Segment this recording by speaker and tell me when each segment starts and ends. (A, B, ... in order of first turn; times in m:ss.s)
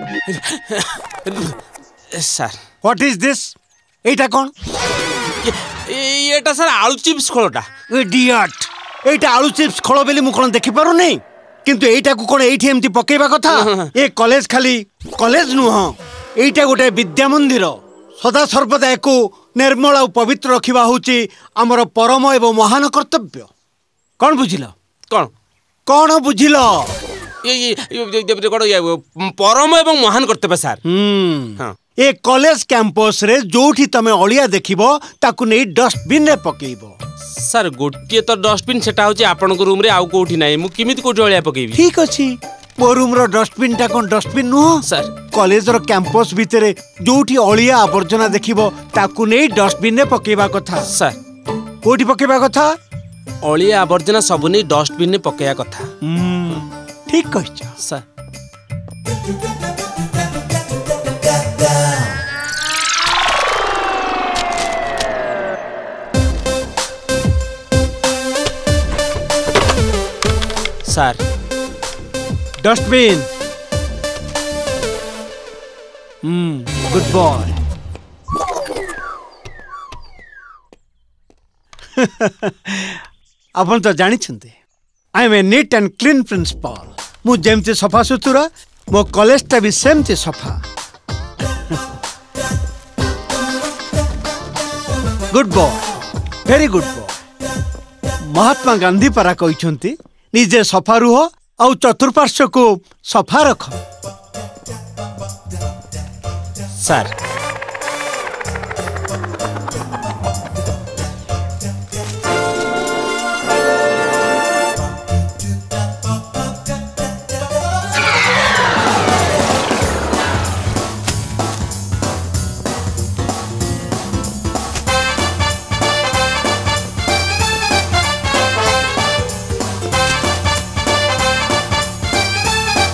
0:00.3-0:01.5 A
0:02.1-0:02.6 A
0:02.8-0:03.5 B
0:04.0-0:04.5 B
0:05.4-0:07.6 A
0:07.9-0:23.5 B
0:13.5-0:13.9 A
0:24.2-0:24.7 B
0:25.9-0:26.9 B
0:27.4-0:30.8 A
0:30.8-0:36.9 B
0:37.4-0:41.8 A
0:41.7-0:50.9 B
0:44.8-0:45.1 A
0:50.9-0:51.2 A
0:51.8-0:52.7 B
0:53.4-0:55.9 A
0:56.0-0:57.8 B
1:10.8-1:11.2 A
1:12.6-1:13.3 B
1:16.2-1:17.6 B
1:22.0-1:23.0 B
1:23.6-1:24.5 B
1:25.1-1:30.6 B
1:35.3-1:35.8 B
1:36.4-1:37.1 B
1:38.3-1:43.7 B
1:46.8-1:47.1 A